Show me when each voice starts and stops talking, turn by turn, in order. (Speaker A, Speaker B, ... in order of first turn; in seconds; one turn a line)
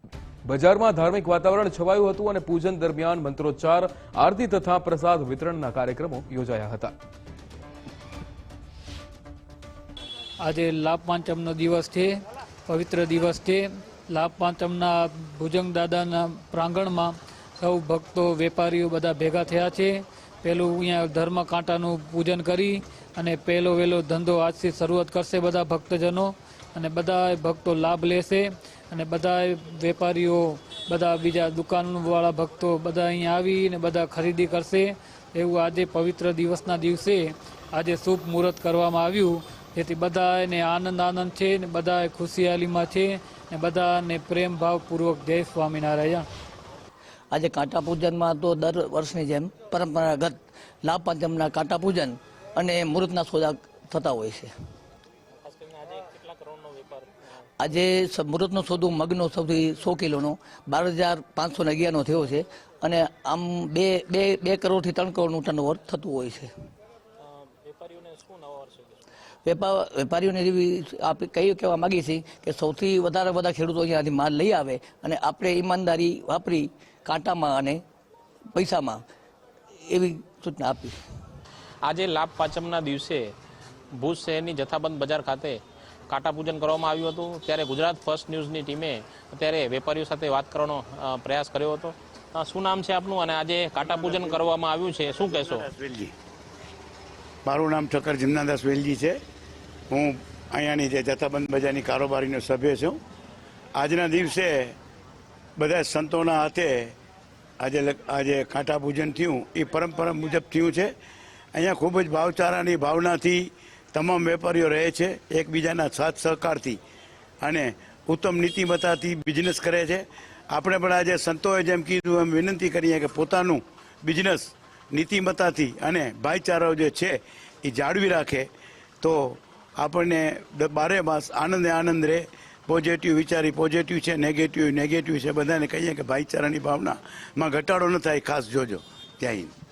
Speaker A: 0.5-6.9
Speaker B: 10.4-12.1
Speaker B: 12.7-46.2
Speaker C: 47.3-54.5
Speaker D: 55.4-57.2
Speaker C: 57.6-66.5
Speaker D: 67.2-69.0
Speaker C: 69.5-77.8
Speaker C: 78.5-79.0
Speaker C: 79.9-81.0
Speaker D: 81.8-83.3
Speaker D: 84.0-95.7
Speaker E: 95.4-96.1
Speaker E: 97.5-99.2
Speaker E: 99.9-103.0
Speaker E: 103.8-104.8
Speaker E: 105.6-107.0
Speaker E: 107.6-110.9
Speaker E: 111.5-116.8
Speaker E: 117.4-128.5
Speaker E: 129.0-139.5